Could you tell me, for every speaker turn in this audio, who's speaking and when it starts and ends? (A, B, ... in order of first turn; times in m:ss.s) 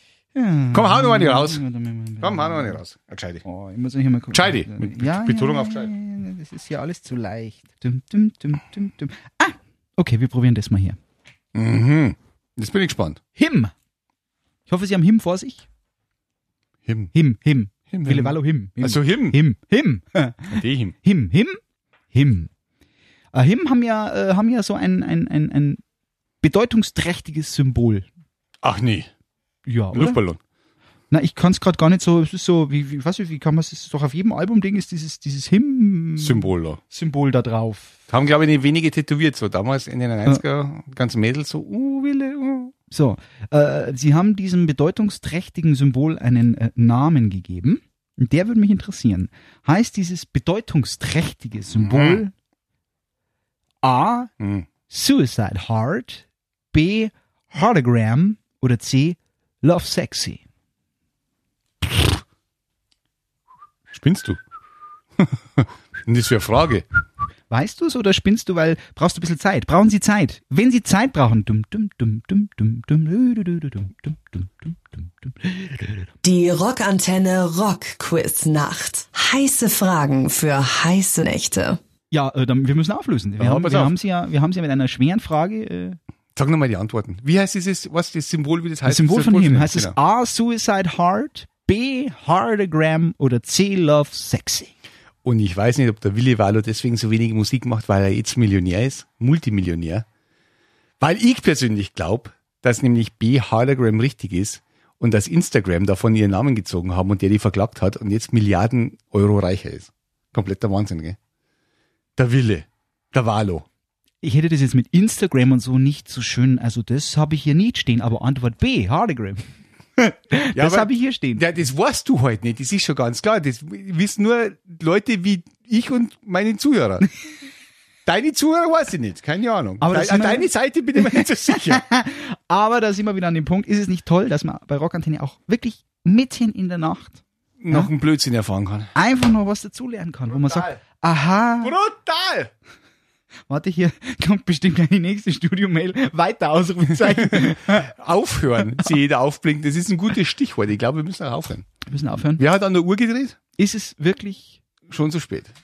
0:00.4-0:02.8 A
0:00.7-0:01.6 B
0:02.2-0:03.4 B
0:03.4-0:11.0 A
0:04.3-0:05.9 B
0:11.5-0:13.2 B
0:13.4-0:13.7 A
0:14.7-0:15.6 A
0:16.9-0:17.1 B
0:17.1-0:21.6 A
0:17.9-0:19.4 B
0:20.5-0:21.0 B
0:22.1-0:22.5 A
0:23.3-0:25.8 A
0:26.4-0:28.1 A
0:28.6-0:29.1 B
0:29.7-0:30.2 A
0:29.9-0:30.4 B
0:31.1-0:38.0 A
0:36.2-0:36.8 B
0:38.1-0:42.7 B
0:42.9-0:52.3 A
0:51.8-0:52.2 B
0:53.8-0:54.3 A
0:54.4-0:54.7 B
0:54.9-1:00.4 A
1:03.9-1:04.4 B
1:05.2-1:06.8 B
1:07.5-1:16.0 A
1:16.2-1:21.8 C
1:22.1-1:26.0 A
1:23.4-1:24.0 B
1:26.4-1:30.0 B
1:28.9-1:34.7 A
1:35.2-1:40.0 B
1:41.0-1:51.2 B
1:52.2-1:53.7 B
1:54.2-1:59.4 A
2:00.0-2:01.5 A
2:00.6-2:07.1 B
2:08.1-2:11.9 B
2:09.8-2:17.9 A
2:17.6-2:18.9 B
2:19.0-2:21.8 A
2:20.4-2:20.8 B
2:21.6-2:22.5 B
2:23.5-2:27.9 A
2:27.0-2:31.7 B
2:31.9-2:32.4 A
2:32.4-2:33.4 B
2:33.6-2:34.6 A
2:34.9-2:35.5 B